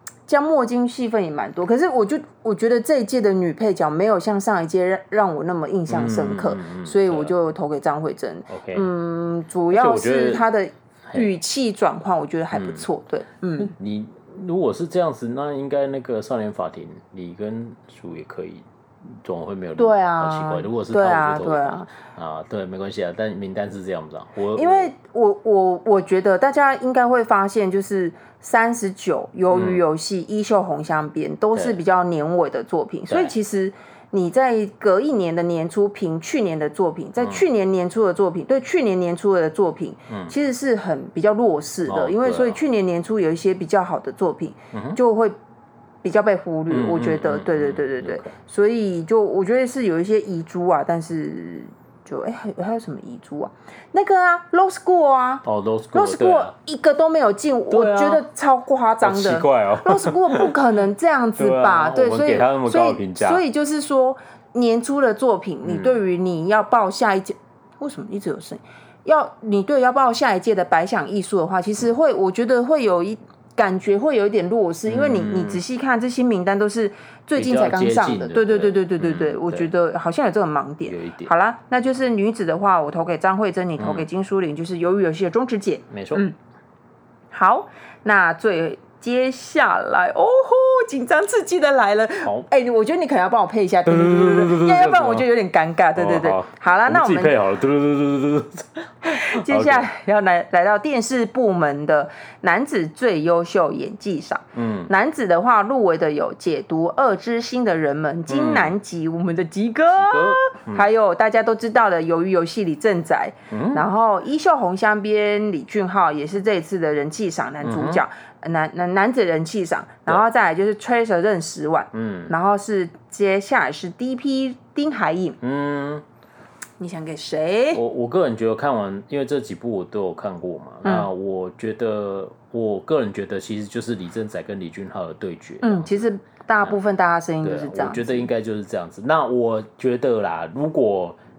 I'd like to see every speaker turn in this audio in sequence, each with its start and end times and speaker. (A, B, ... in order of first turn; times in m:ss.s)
0:00.3-0:13.7 A
0:05.9-0:07.3 B
0:08.5-0:08.9 B
0:09.7-0:10.4 B
0:12.5-0:12.8 B
0:13.7-0:18.6 B
0:19.2-0:24.9 B
0:19.8-0:21.9 A
0:24.5-0:45.3 A
0:29.5-0:29.8 B
0:40.1-0:40.3 B
0:41.8-0:42.6 B
0:44.7-0:45.0 B
0:46.0-1:26.3 A
0:46.7-0:48.3 B
0:55.4-0:56.5 B
0:57.7-0:58.2 B
0:59.0-1:00.5 B
1:01.4-1:03.4 B
1:05.6-1:06.0 B
1:14.8-1:15.6 B
1:17.4-1:19.7 B
1:20.8-1:21.3 B
1:23.8-1:24.0 B
1:25.9-1:26.2 B
1:27.3-1:37.4 A
1:33.8-1:35.2 B
1:36.0-1:39.9 B
1:39.1-2:05.4 A
1:44.5-1:44.9 B
1:48.3-1:48.7 B
1:49.9-1:50.8 B
1:53.5-1:53.8 B
1:57.6-1:58.0 B
2:01.9-2:02.3 B
2:05.4-2:06.0 B
2:06.8-2:07.8 A
2:07.7-2:16.0 B
2:10.8-2:11.1 A
2:15.6-2:18.3 A
2:17.4-2:21.2 B